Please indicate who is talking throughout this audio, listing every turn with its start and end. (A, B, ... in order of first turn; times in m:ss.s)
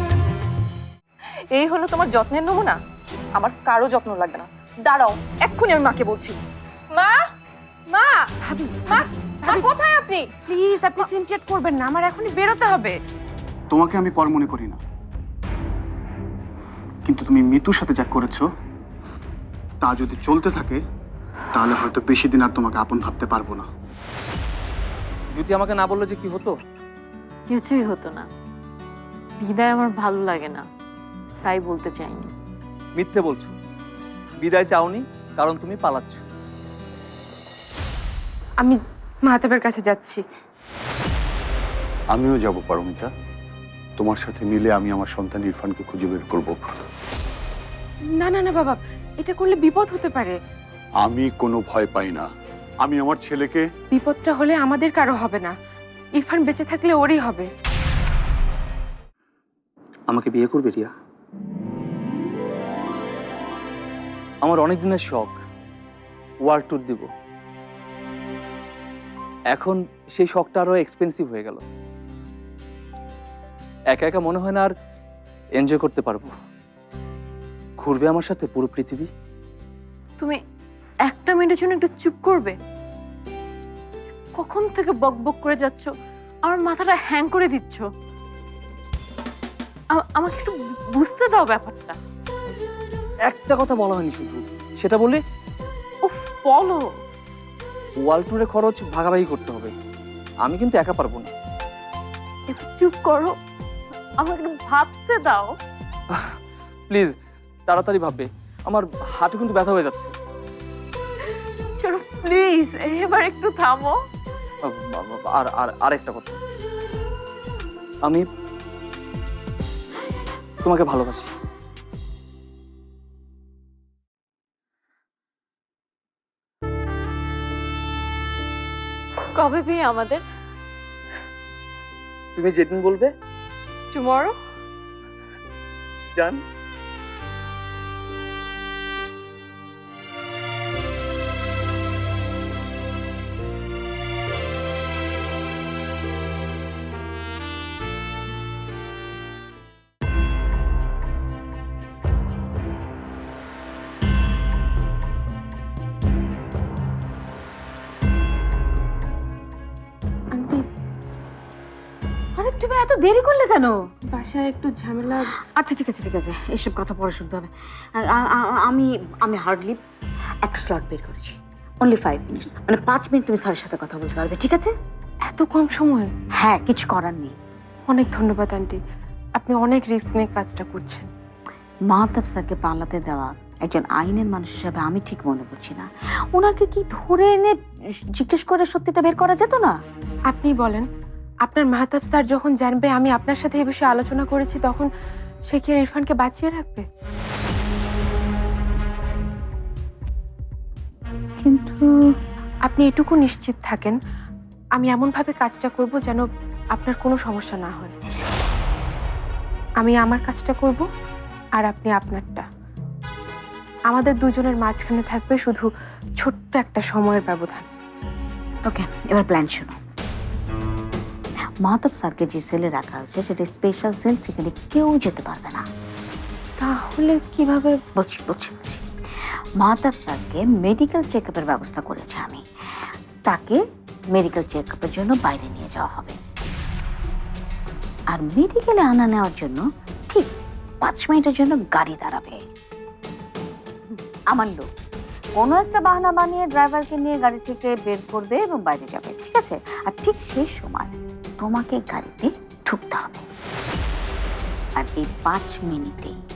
0:01.5-0:02.8 A
0:03.4-0:06.4 A
0:06.9-0:07.3 A
0:07.9-0:08.2 A
0:08.4-0:09.8 B
0:08.9-0:10.3 A
0:10.4-0:13.0 B
0:13.7-0:14.8 C
0:17.1-0:18.4 C
0:19.8-0:20.8 C
0:21.6-0:23.7 C
0:25.3-0:26.6 D
0:27.5-0:28.3 E
0:29.4-0:30.7 E
0:31.4-0:32.3 E
0:33.0-0:33.6 D
0:34.4-0:36.2 D
0:38.6-0:40.2 B
0:42.1-0:43.1 F
0:44.0-0:46.8 F
0:48.2-0:50.4 B
0:51.0-0:52.3 F
0:52.8-0:53.7 F
0:53.9-0:55.5 B
0:56.2-0:57.5 B
1:00.1-1:00.9 D
1:04.4-1:05.4 D
1:06.5-1:07.1 D
1:09.5-1:11.6 D
1:13.9-1:14.7 D
1:15.6-1:16.3 D
1:17.8-1:19.1 D
1:21.1-1:22.6 E
1:24.4-1:25.9 E
1:26.4-1:27.9 E
1:30.0-1:32.0 E
1:33.3-1:35.2 D
1:36.0-1:36.8 E
1:38.0-1:39.7 D
1:40.4-1:41.3 D
1:42.5-1:43.3 E
1:44.2-1:45.5 E
1:47.7-1:50.1 D
1:51.8-1:54.0 E
1:54.7-1:56.4 D
2:00.6-2:01.3 D
2:09.3-2:10.2 E
2:12.4-2:13.1 D
2:13.9-2:14.4 E
2:16.2-2:16.4 D
2:40.3-2:40.6 B
2:42.4-2:43.8 G
2:44.1-2:45.3 B
2:45.4-2:49.8 G
2:50.5-2:54.7 G
2:55.2-2:56.1 B
2:56.4-2:57.4 G
2:57.9-2:58.8 B
2:59.4-3:01.1 B
3:01.9-3:07.6 G
3:08.2-3:09.7 G
3:10.3-3:10.9 B
3:11.4-3:14.9 B
3:15.5-3:16.9 B
3:21.4-3:21.9 G
3:22.7-3:24.0 B
3:24.8-3:28.0 B
3:29.8-3:30.8 B
3:31.6-3:32.4 B
3:33.9-3:35.7 B
3:36.2-3:37.7 B
3:38.6-3:39.8 G
3:41.6-3:45.6 G
3:46.6-3:47.8 B
3:48.0-3:48.9 G
3:49.6-3:53.6 G
3:54.1-3:56.2 G
3:58.1-4:00.3 G
4:00.8-4:02.4 G
4:04.3-4:04.7 G
4:05.4-4:13.2 G
4:14.8-4:16.2 G